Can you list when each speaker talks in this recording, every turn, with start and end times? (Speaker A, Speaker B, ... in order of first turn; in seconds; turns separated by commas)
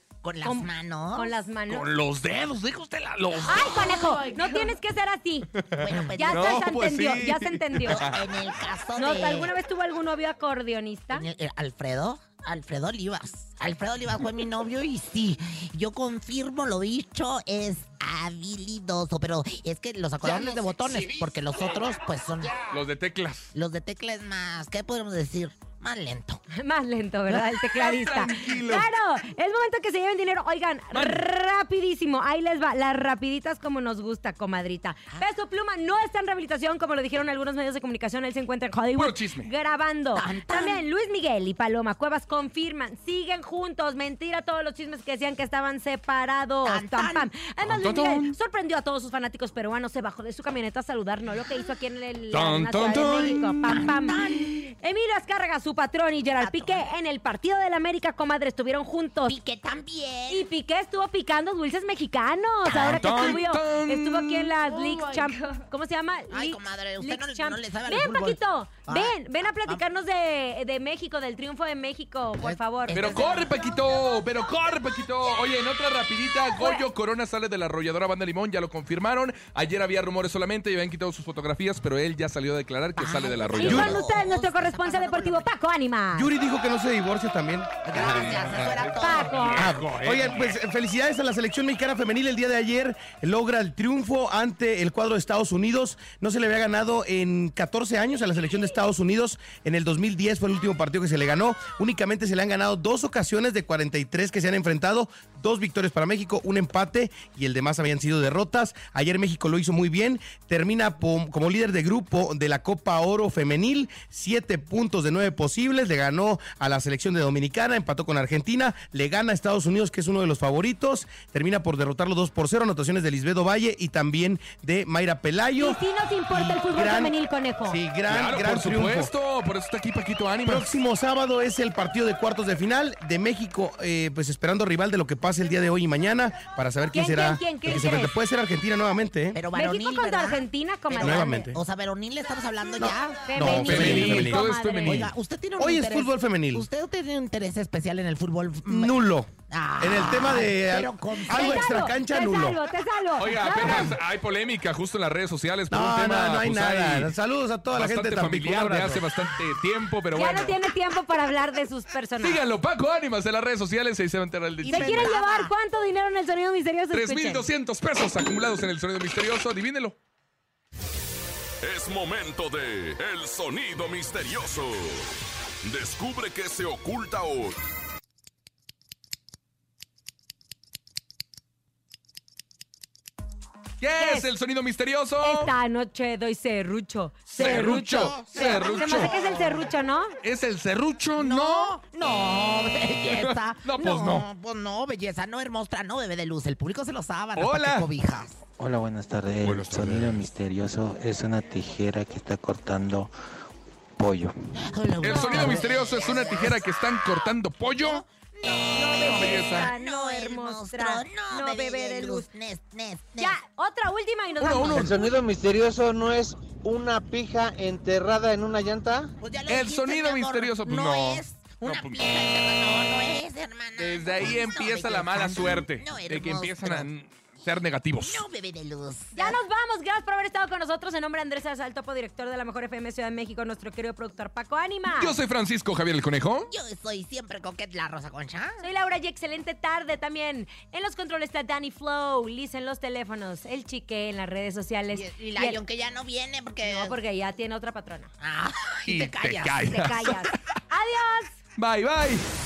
Speaker A: 0.2-1.4, Speaker B: 0.4-1.9, Speaker C: 1.7-4.6, Speaker B: 3.5-5.5, Speaker C: 5.6-8.2, Speaker A: 5.8-6.8, Speaker B: 6.1-8.1, Speaker A: 7.9-9.5, Speaker B: 8.9-11.3, Speaker A: 11.1-22.7, Speaker C: 22.7-23.5, Speaker A: 23.6-26.4, Speaker B: 26.6-54.2, Speaker C: 27.3-28.9, Speaker C: 30.9-31.3, Speaker C: 38.9-39.5, Speaker A: 40.1-40.9, Speaker A: 46.6-47.3, Speaker C: 47.6-48.3, Speaker C: 52.3-53.4, Speaker A: 53.2-54.7, Speaker B: 54.8-59.4, Speaker A: 56.4-56.9, Speaker A: 59.2-60.5, Speaker B: 60.3-73.2, Speaker A: 62.6-63.4, Speaker C: 62.7-64.6, Speaker A: 66.3-69.8, Speaker A: 72.4-73.7, Speaker C: 72.9-84.0, Speaker B: 76.6-76.8, Speaker A: 82.9-85.5, Speaker B: 83.6-86.3, Speaker D: 86.1-88.3, Speaker A: 87.9-89.6, Speaker C: 87.9-90.5, Speaker B: 89.0-89.8, Speaker D: 89.6-125.8, Speaker B: 125.6-127.8, Speaker D: 126.3-129.1, Speaker C: 128.1-130.7, Speaker D: 130.4-139.4, Speaker B: 136.9-138.1, Speaker A: 139.3-144.2, Speaker B: 139.5-141.5, Speaker D: 141.0-141.6, Speaker D: 142.8-144.4, Speaker B: 143.3-145.1, Speaker C: 143.5-145.1, Speaker A: 144.8-151.7, Speaker D: 145.6-146.6, Speaker D: 148.7-152.6, Speaker B: 151.3-154.0, Speaker C: 153.2-157.1, Speaker D: 155.7-159.1, Speaker C: 157.7-160.6, Speaker B: 160.1-162.4, Speaker C: 162.2-165.1, Speaker B: 164.6-167.5, Speaker A: 164.6-165.5, Speaker C: 166.9-169.9, Speaker E: 171.6-175.1, Speaker E: 175.6-177.6, Speaker C: 183.8-185.5, Speaker B: 184.0-184.3, Speaker B: 185.2-190.1, Speaker C: 187.3-189.3, Speaker A: 187.4-189.4, Speaker C: 190.2-191.7, Speaker A: 191.2-198.4, Speaker C: 193.1-194.3, Speaker C: 197.4-197.9, Speaker F: 198.6-203.1, Speaker C: 199.4-200.3, Speaker F: 204.0-204.3, Speaker A: 204.6-206.9, Speaker C: 205.0-208.0, Speaker B: 205.1-205.6, Speaker A: 207.7-213.4, Speaker B: 208.4-212.3, Speaker C: 209.0-209.7, Speaker B: 213.2-215.1, Speaker C: 214.4-215.1, Speaker G: 214.7-219.1, Speaker A: 219.2-226.9, Speaker C: 219.5-222.0, Speaker C: 223.8-228.2, Speaker A: 227.9-229.4, Speaker B: 229.1-235.2, Speaker C: 234.9-236.5, Speaker A: 236.5-238.6, Speaker B: 238.6-245.6, Speaker A: 244.9-247.0, Speaker B: 246.6-248.1, Speaker A: 248.2-249.8, Speaker C: 248.9-250.4, Speaker B: 249.7-251.4, Speaker C: 251.6-252.2